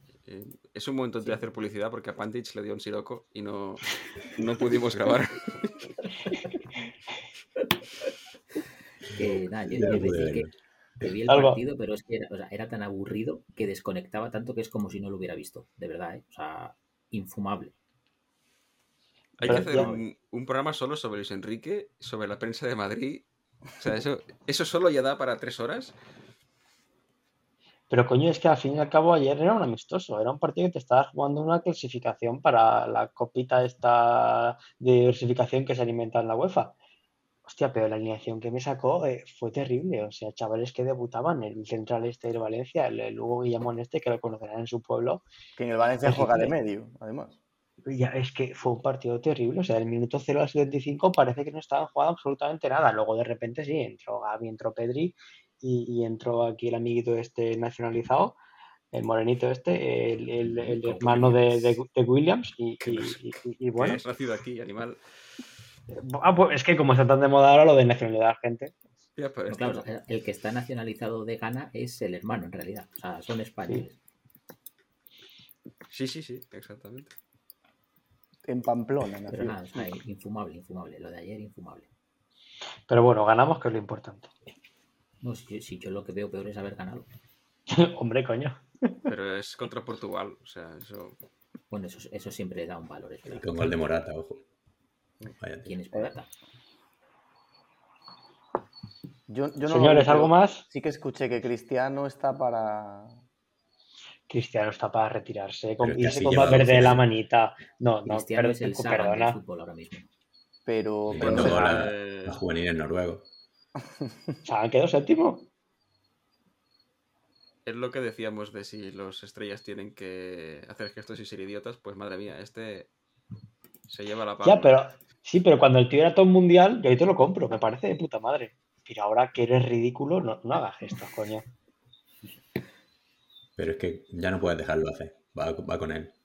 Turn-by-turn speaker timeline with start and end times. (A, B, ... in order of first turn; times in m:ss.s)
0:00.2-0:06.0 A
0:09.1-0:10.5 B
0:09.2-0:10.5 C
0:11.0-0:17.7 B
0:11.3-0:11.6 D
0:19.4-0:23.2 A
0:19.4-0:20.0 D
0:19.5-0:19.9 E
0:23.8-0:26.0 A
0:27.9-0:36.7 D
0:37.5-0:45.2 D
0:45.6-0:47.4 E
0:46.0-0:46.5 D
0:47.9-0:58.4 D
0:58.9-1:04.0 D
1:00.4-1:01.8 B
1:02.8-1:05.0 A
1:05.9-1:08.8 D
1:09.2-1:09.9 A
1:09.5-1:14.0 B
1:15.9-1:17.1 A
1:18.4-1:19.6 E
1:19.3-1:21.9 B
1:22.9-1:24.3 D
1:25.2-1:27.1 B
1:27.7-1:28.9 D
1:29.1-1:31.2 A
1:31.7-1:33.8 B
1:33.3-1:34.4 C
1:35.4-1:35.8 C
1:35.6-1:36.3 B
1:39.3-1:43.2 E
1:39.7-1:40.6 D
1:44.3-1:49.4 D
1:45.8-1:47.0 C
1:48.1-1:50.1 B
1:50.7-1:51.7 E
1:51.1-1:53.3 C
1:51.2-1:52.4 A
1:54.4-1:55.5 D
1:57.7-2:02.9 A
2:03.9-2:04.8 A
2:04.4-2:11.4 D
2:13.6-2:16.1 C